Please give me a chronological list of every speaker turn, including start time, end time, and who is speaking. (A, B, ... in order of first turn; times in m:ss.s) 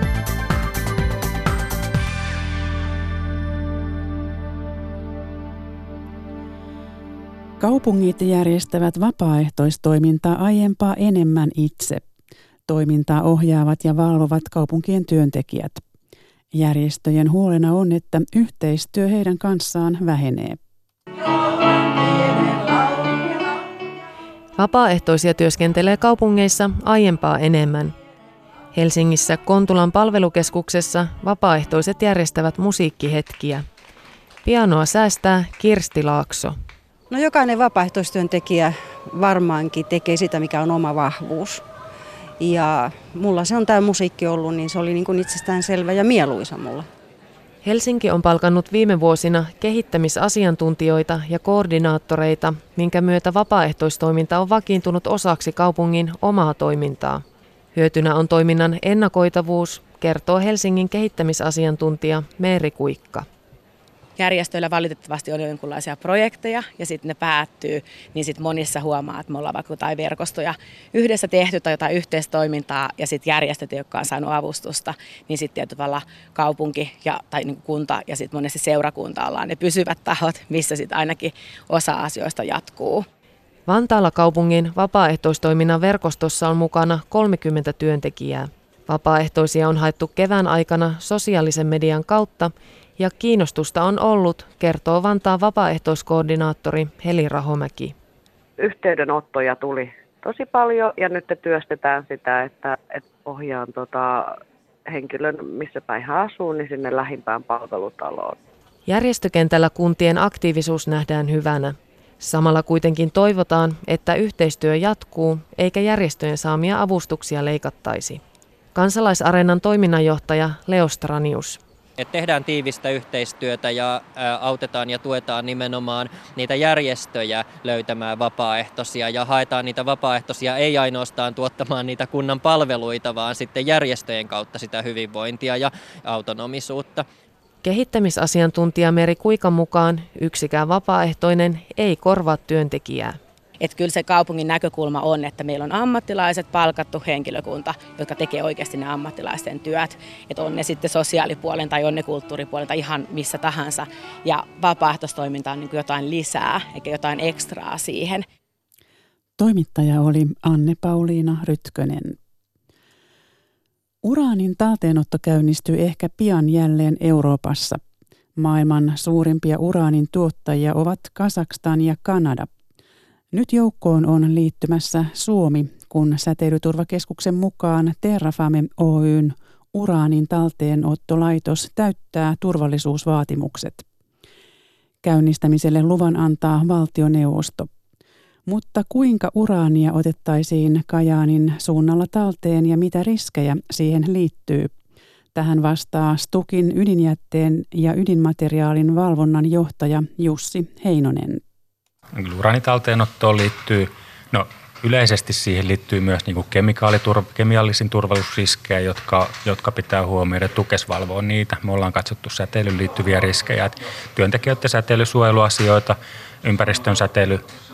0:07.6-0:12.0 A
0:12.7-0:15.8 A
0:16.5-0:20.6 A
0:24.6-0:28.0 B
0:28.7-0:33.7 B
0:34.4-0:36.6 B
0:37.1-0:41.6 C
0:42.4-0:46.9 C
0:47.6-1:03.3 B
1:04.2-1:23.1 D
1:23.7-1:38.0 B
1:38.6-1:44.3 E
1:44.9-1:48.4 E
1:48.9-1:58.2 B
1:58.8-2:01.6 B
2:02.0-2:17.1 F
2:17.6-2:23.2 B
2:23.6-2:38.3 D
2:39.4-2:42.2 A
2:44.0-2:47.8 A
2:48.4-2:52.5 A
2:53.3-3:03.8 A
3:05.0-3:07.7 A
3:08.5-3:14.7 A
3:15.4-3:21.4 A
3:22.1-3:37.4 G